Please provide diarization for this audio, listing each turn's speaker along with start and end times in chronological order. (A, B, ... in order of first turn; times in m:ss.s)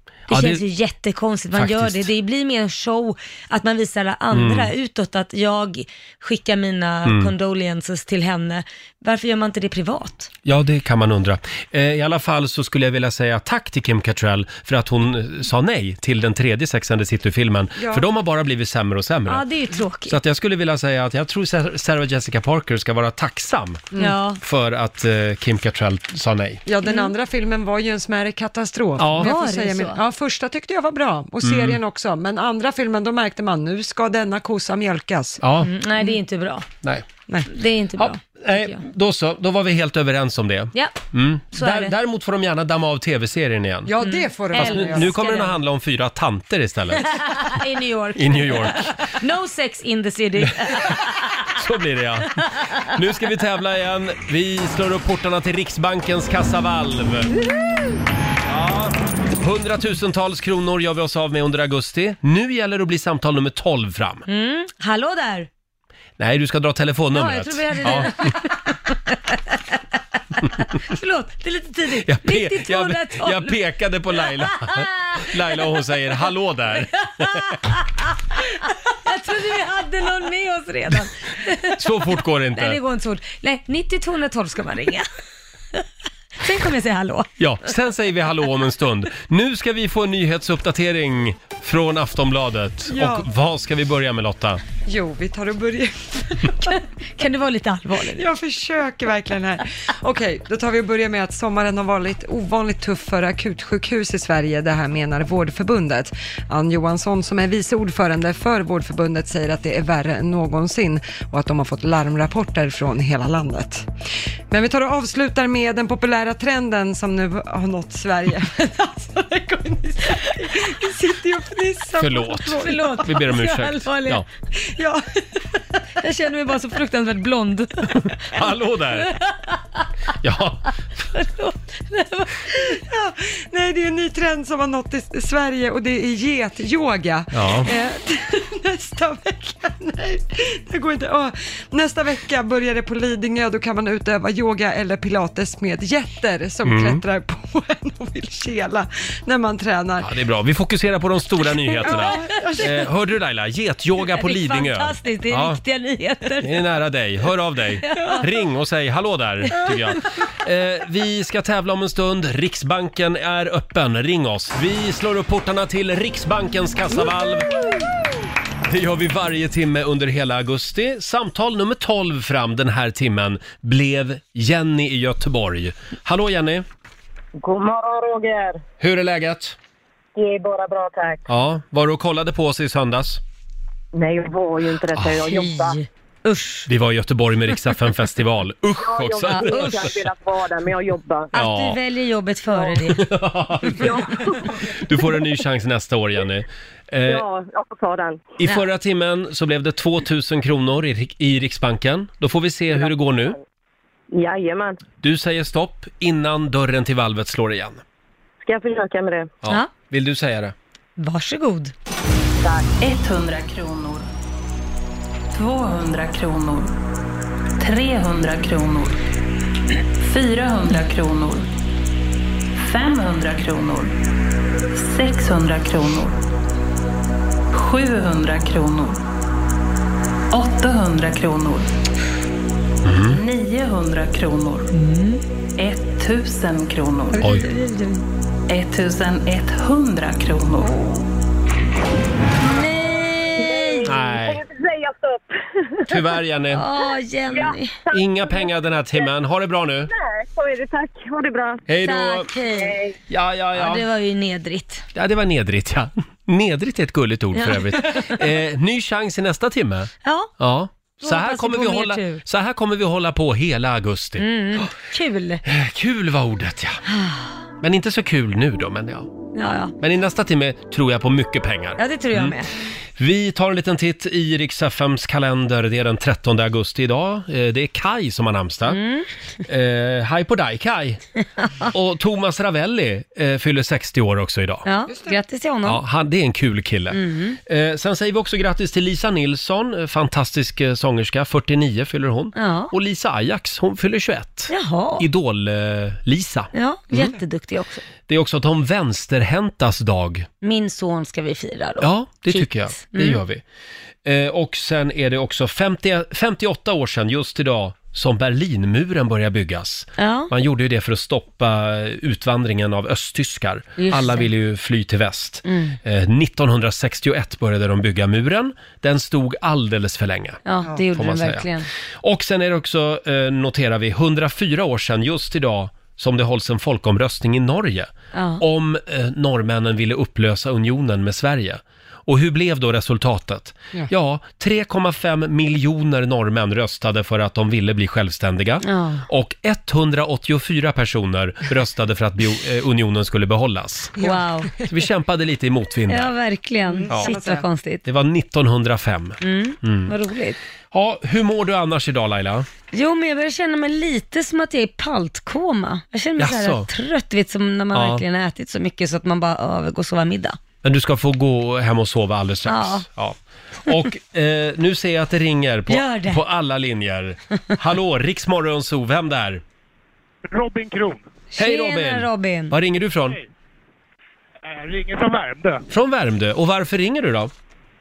0:00.3-0:00.6 A
0:00.3-0:10.3 B
0:01.5-0:02.1 A
0:04.3-0:04.7 A
0:07.0-0:07.3 A
0:10.4-0:19.4 A
0:17.8-0:18.0 C
0:19.3-0:20.2 B
0:20.1-0:23.9 A
0:24.0-0:24.4 B
0:24.4-0:26.6 A
0:26.6-0:35.4 C
0:26.8-0:27.1 B
0:29.0-0:29.3 A
0:29.2-0:30.0 B
0:31.4-0:31.8 A
0:35.4-0:35.7 A
0:35.6-0:36.7 B
0:37.4-0:38.8 B
0:38.0-0:43.9 A
0:40.7-0:41.0 B
0:41.5-0:41.9 B
0:43.8-0:45.1 C
0:44.0-0:45.6 B
0:44.5-0:47.2 A
0:47.0-0:51.5 B
0:48.1-0:48.9 A
0:50.6-0:50.9 A
0:51.4-0:57.3 A
0:57.4-0:57.7 B
0:58.4-1:04.2 A
1:04.3-1:05.5 B
1:06.2-1:08.4 A
1:07.1-1:09.8 B
1:10.4-1:13.6 B
1:12.0-1:17.6 A
1:14.1-1:15.7 B
1:17.2-1:25.1 B
1:21.7-1:22.8 A
1:26.4-1:27.3 B
1:27.4-1:34.6 A
1:32.9-1:33.3 C
1:34.8-1:36.8 C
1:36.7-1:38.3 B
1:38.1-1:53.9 C
1:54.5-2:03.0 C
2:02.0-2:04.2 A
2:02.5-2:04.2 B
2:04.5-2:05.6 C
2:06.0-2:09.8 B
2:08.0-2:09.1 A
2:10.2-2:11.0 A
2:11.1-2:12.8 B
2:12.6-2:30.1 C
2:17.3-2:17.7 A
2:26.6-2:27.0 A
2:30.0-2:35.6 A
2:31.8-2:32.8 C
2:31.8-2:32.7 B
2:34.0-2:36.6 B
2:36.4-2:47.5 A
2:37.8-2:38.3 B
2:39.5-2:40.2 B
2:48.7-2:56.6 A
2:57.4-2:58.6 D
2:58.8-2:59.6 A
3:00.1-3:01.2 D
3:01.3-3:03.2 A
3:03.9-3:05.8 D
3:04.9-3:05.2 A
3:05.2-3:06.7 B
3:06.7-3:10.0 A
3:08.8-3:11.3 D
3:09.3-3:09.9 B
3:11.3-3:11.8 A
3:11.3-3:13.1 B
3:12.8-3:17.2 A
3:13.7-3:15.1 D
3:17.0-3:18.2 D
3:18.4-3:23.4 A
3:22.7-3:23.4 D
3:24.1-3:24.8 D
3:25.0-3:27.8 A
3:28.4-3:29.3 D
3:29.4-3:30.5 A
3:31.0-3:31.7 B
3:32.4-3:32.7 D
3:32.8-3:34.1 E
3:35.3-3:36.8 E
3:37.6-3:39.0 E
3:40.0-3:41.5 E
3:42.5-3:44.0 E
3:44.7-3:46.2 E
3:47.5-3:49.0 E
3:50.3-3:51.7 E
3:52.8-3:53.2 A
3:53.0-3:54.7 E
3:54.7-3:55.2 B
3:55.6-3:57.2 E
3:57.1-3:58.0 B
3:57.2-3:57.5 A
3:58.5-4:00.8 E
4:00.6-4:01.0 B
4:02.4-4:03.9 B
4:03.4-4:06.1 D
4:03.8-4:04.4 A
4:05.9-4:06.6 A
4:06.5-4:07.8 B
4:07.3-4:09.1 D
4:07.9-4:09.9 A
4:09.9-4:11.7 D
4:11.7-4:12.3 A
4:11.8-4:12.8 B
4:12.5-4:13.0 D
4:13.1-4:13.8 A
4:13.5-4:14.8 B
4:14.9-4:24.2 A
4:17.3-4:18.2 B
4:20.0-4:20.3 B
4:21.0-4:22.2 B
4:24.2-4:25.4 B
4:25.4-4:26.8 A
4:26.9-4:27.3 B
4:27.6-4:29.2 A
4:29.3-4:29.7 B
4:29.8-4:32.4 A
4:31.8-4:32.5 B
4:33.0-4:38.8 A
4:38.7-4:39.1 B
4:39.4-4:41.0 A
4:41.6-4:44.6 A
4:44.6-4:45.8 B
4:44.9-4:45.2 C
4:45.6-4:57.2 A
4:46.9-4:47.4 B
4:52.3-4:52.7 B
4:54.5-4:55.0 B
4:56.5-4:57.8 B
4:58.1-5:00.3 A
5:00.4-5:03.2 B
5:01.8-5:03.4 A
5:04.0-5:20.4 A
5:10.0-5:10.3 B
5:13.8-5:14.3 B
5:15.4-5:15.8 B
5:20.4-5:21.7 B
5:20.9-5:21.5 A
5:22.0-5:44.0 A
5:28.1-5:28.4 B
5:38.6-5:39.0 B
5:44.0-5:44.6 B
5:44.0-5:44.2 C
5:44.6-5:46.1 A
5:45.9-5:47.8 B
5:46.7-5:47.5 C
5:47.8-5:49.9 A
5:49.2-5:50.4 B
5:50.7-5:52.4 A
5:52.7-6:00.4 B
5:56.2-5:56.7 A
5:57.7-5:58.0 A
6:00.6-6:09.4 A
6:02.5-6:02.9 B
6:05.7-6:06.2 B
6:10.2-6:11.0 F
6:11.4-6:12.5 B
6:11.4-6:13.2 A
6:14.4-6:15.6 F
6:15.7-6:17.3 A